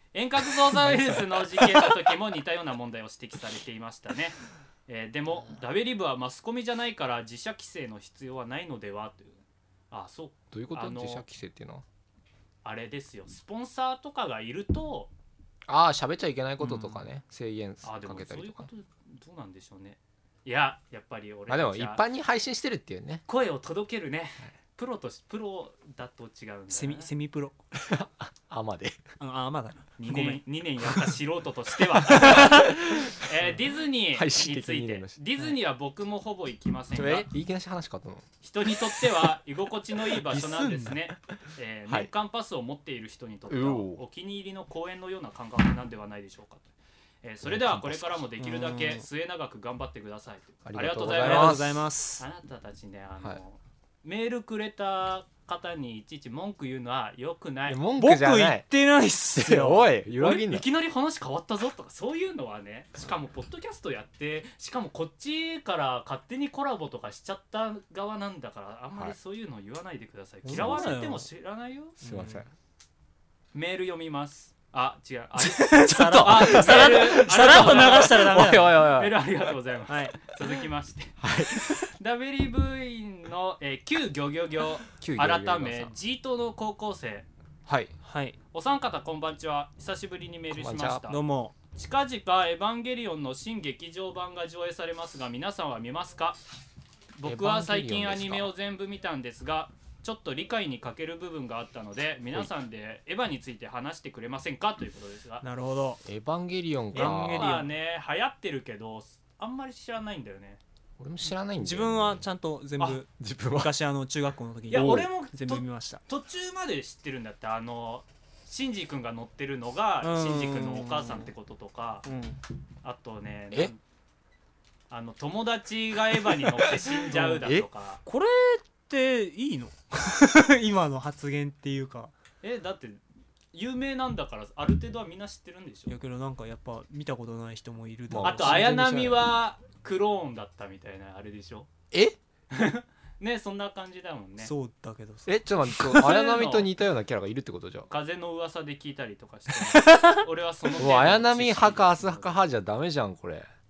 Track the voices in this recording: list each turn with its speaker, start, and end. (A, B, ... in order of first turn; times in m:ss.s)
0:00.1-0:11.2 A
0:00.4-0:01.9 B
0:10.5-0:11.8 B
0:12.6-0:15.1 A
0:15.7-0:18.7 B
0:16.6-0:17.0 C
0:17.8-0:22.0 A
0:21.5-0:23.2 B
0:23.3-0:27.1 A
0:26.7-0:27.5 C
0:27.7-0:29.0 B
0:29.2-0:30.4 C
0:30.0-0:37.3 A
0:32.1-0:32.6 C
0:32.1-0:33.5 B
0:34.1-0:35.2 B
0:36.9-0:39.2 B
0:38.4-0:46.7 A
0:40.2-0:41.1 B
0:43.5-0:44.0 B
0:47.2-0:51.6 A
0:47.4-0:48.2 B
0:48.4-0:49.0 C
0:50.6-0:51.8 B
0:51.1-0:52.2 C
0:52.2-0:57.8 A
0:57.6-0:58.6 B
0:58.0-0:59.9 C
0:59.3-1:00.7 B
1:00.2-1:12.0 A
1:10.4-1:11.3 C
1:10.5-1:10.9 B
1:12.0-1:12.4 C
1:12.0-1:12.5 B
1:13.5-1:27.3 A
1:15.4-1:18.8 C
1:15.9-1:19.2 B
1:19.9-1:20.2 C
1:21.2-1:21.8 B
1:25.0-1:25.9 B
1:27.6-1:27.9 B
1:28.0-1:28.4 C
1:28.5-1:31.2 A
1:30.5-1:31.0 B
1:31.1-1:31.5 C
1:31.7-1:36.4 A
1:37.1-1:45.4 A
1:37.2-1:38.5 B
1:45.4-1:46.0 C
1:46.0-1:47.5 B
1:46.9-1:47.7 C
1:46.9-1:50.6 A
1:51.0-1:52.2 B
1:51.6-1:56.0 C
1:52.8-1:53.7 B
1:54.7-2:02.0 A
1:54.7-1:55.1 B
2:00.0-2:01.3 C
2:02.0-2:02.4 C
2:02.8-2:03.8 A
2:04.9-2:08.0 A
2:06.6-2:07.6 B
2:07.1-2:07.4 C
2:08.0-2:12.1 C
2:12.4-2:15.9 A
2:15.9-2:18.8 C
2:18.1-2:19.2 B
2:18.2-2:21.7 A
2:21.9-2:22.2 B
2:22.5-2:24.5 A
2:24.4-2:25.3 C
2:25.2-2:27.9 B
2:25.9-2:26.7 A
2:27.9-2:32.3 A
2:29.8-2:30.2 C
2:30.8-2:33.5 B